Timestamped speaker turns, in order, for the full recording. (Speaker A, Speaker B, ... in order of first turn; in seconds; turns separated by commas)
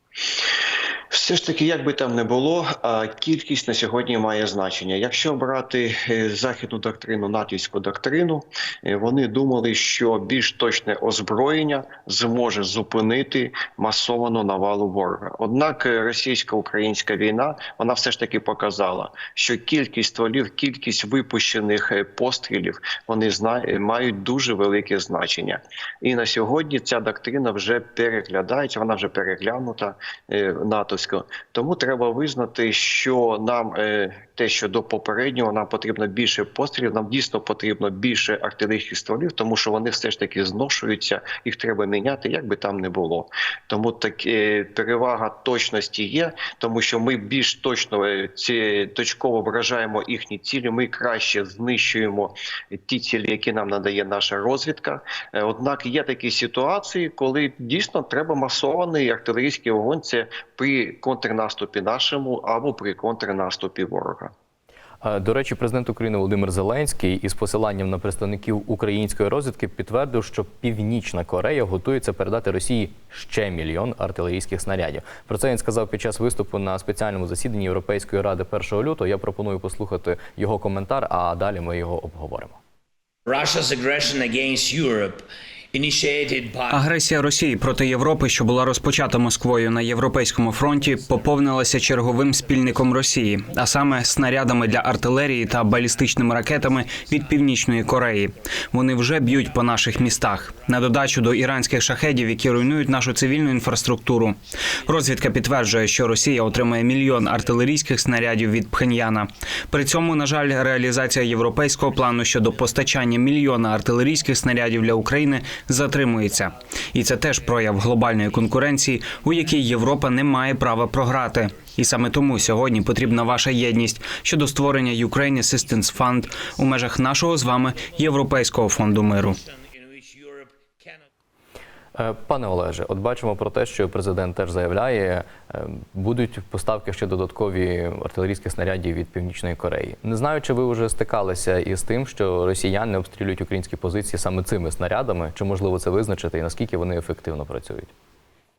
Speaker A: 1.1-64.3, Speaker B: 65.0-82.5, Speaker C: 83.3-86.9, Speaker D: 86.7-129.4, Speaker C: 87.7-88.0, Speaker C: 89.2-107.7, Speaker C: 108.5-108.9, Speaker C: 111.0-113.0, Speaker C: 113.8-115.3, Speaker C: 116.0-123.7, Speaker C: 125.1-131.0, Speaker B: 131.9-147.9